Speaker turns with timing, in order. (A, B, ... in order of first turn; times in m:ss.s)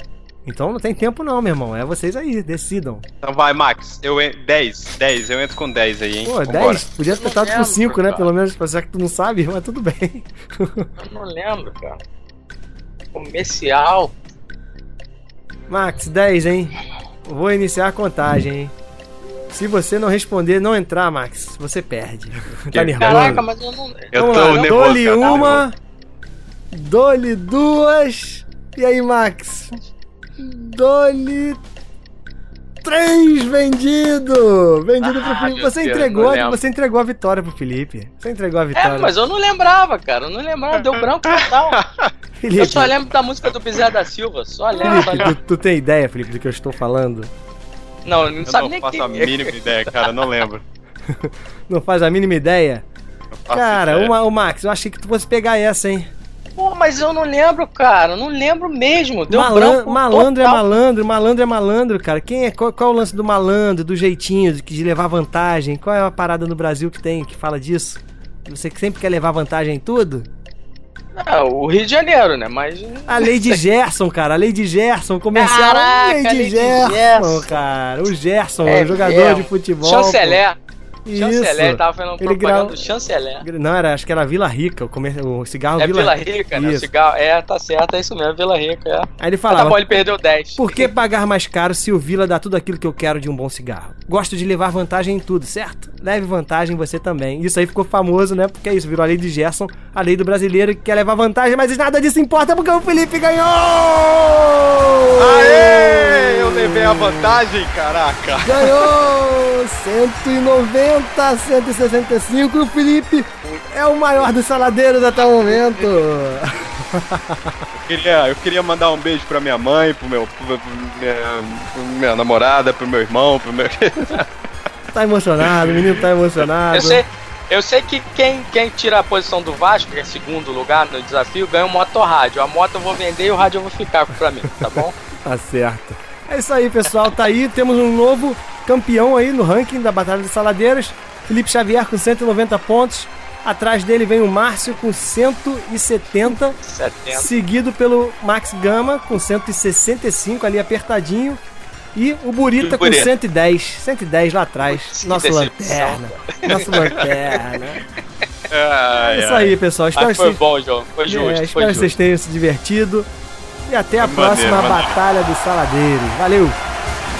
0:00.4-0:03.0 A
0:03.2-0:06.8 B
0:06.2-0:10.9 A
0:07.0-0:08.3 C
0:11.0-0:12.0 C
0:13.1-0:14.1 C
0:15.7-0:18.7 A
0:19.5-0:23.4 A
0:22.7-0:23.4 B
0:23.0-0:25.5 C
0:24.1-0:25.6 B
0:24.1-0:25.8 A
0:26.7-0:29.8 A
0:30.4-0:31.6 A
0:32.8-0:39.1 A
0:35.0-0:36.6 C
0:38.7-0:41.8 C
0:41.3-0:42.1 B
0:42.4-0:42.9 A
0:42.5-0:45.3 C
0:44.8-0:47.3 A
0:44.9-0:45.2 B
0:48.0-0:50.1 C
0:48.4-0:50.6 B
0:51.1-0:52.8 A
0:53.4-0:54.1 B
0:53.5-0:56.1 A
0:56.6-1:00.7 C
0:59.3-1:10.3 A
1:11.2-1:13.6 C
1:13.1-1:20.4 A
1:15.3-1:17.5 C
1:18.6-1:20.6 C
1:21.0-1:22.9 A
1:21.1-1:23.4 C
1:23.4-1:26.9 A
1:25.8-1:30.9 C
1:29.2-1:30.0 A
1:30.6-1:47.4 A
1:45.2-1:48.9 B
1:48.4-1:57.6 A
1:57.8-2:04.3 B
2:04.9-2:07.0 A
2:05.4-2:05.9 B
2:06.7-2:15.0 C
2:15.2-2:26.6 A
2:26.6-2:27.3 C
2:27.1-2:31.4 A
2:31.9-2:37.8 A
2:32.6-2:33.1 C
2:34.7-2:37.4 C
2:38.5-2:39.6 B
2:39.0-2:40.4 A
2:40.0-2:41.9 C
2:41.0-2:43.1 A
2:43.7-2:46.6 A
2:44.0-2:45.0 B